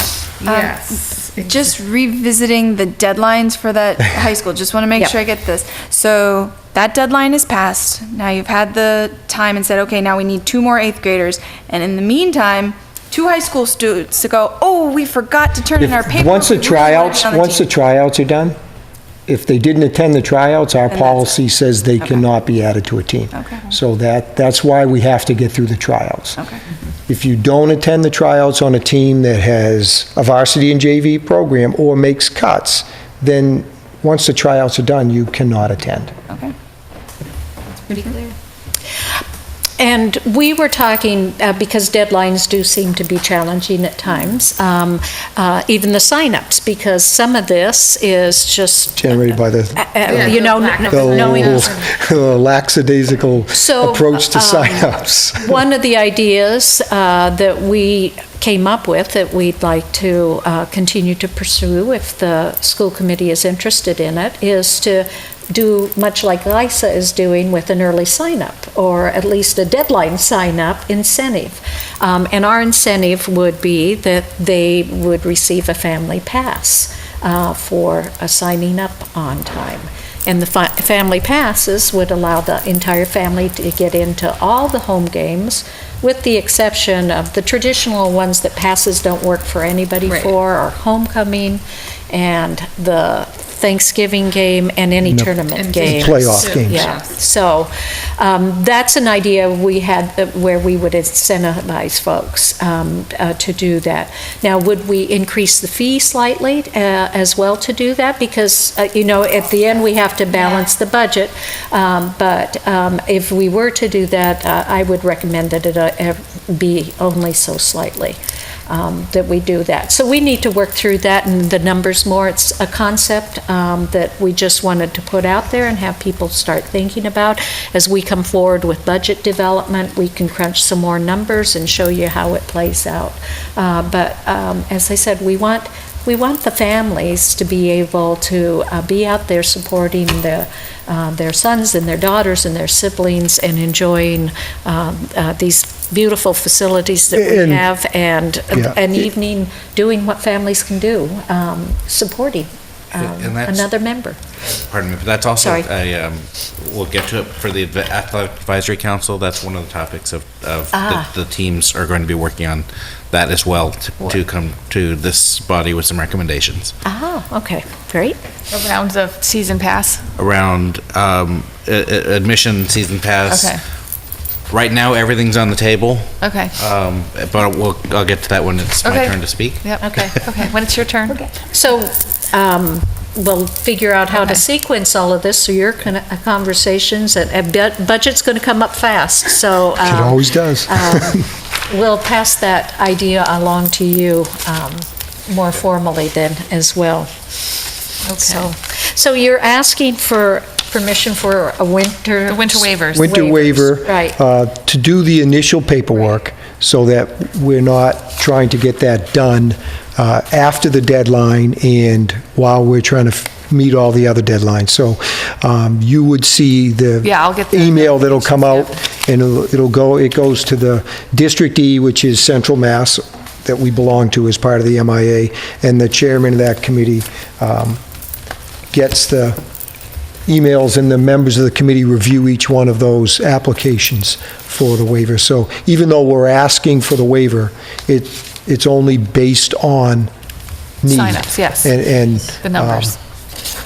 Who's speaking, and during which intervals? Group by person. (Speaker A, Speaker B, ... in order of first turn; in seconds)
Speaker A: 0.4-17.7, 20.9-21.4, 23.3-23.7
Speaker B: 0.5-1.3, 50.1-51.0, 168.5-170.1, 173.3-173.6, 176.2-176.6, 178.8-181.2, 198.0-198.5, 202.3-203.4, 217.0-218.8, 240.8-242.9
Speaker C: 15.8-18.6, 19.3-26.4, 27.1-36.1, 49.0-55.5, 95.1-96.9, 147.1-147.7, 148.5-148.9, 189.8-191.2, 202.9-227.8, 228.7-229.4, 230.2-240.1, 240.8-242.9
Speaker D: 39.8-51.8, 53.5-154.2, 155.4-155.7, 160.7-161.1, 166.8-168.2, 179.8-180.1, 181.5-204.2
Speaker E: 153.0-153.7, 154.4-166.7, 170.2-173.6, 174.5-180.3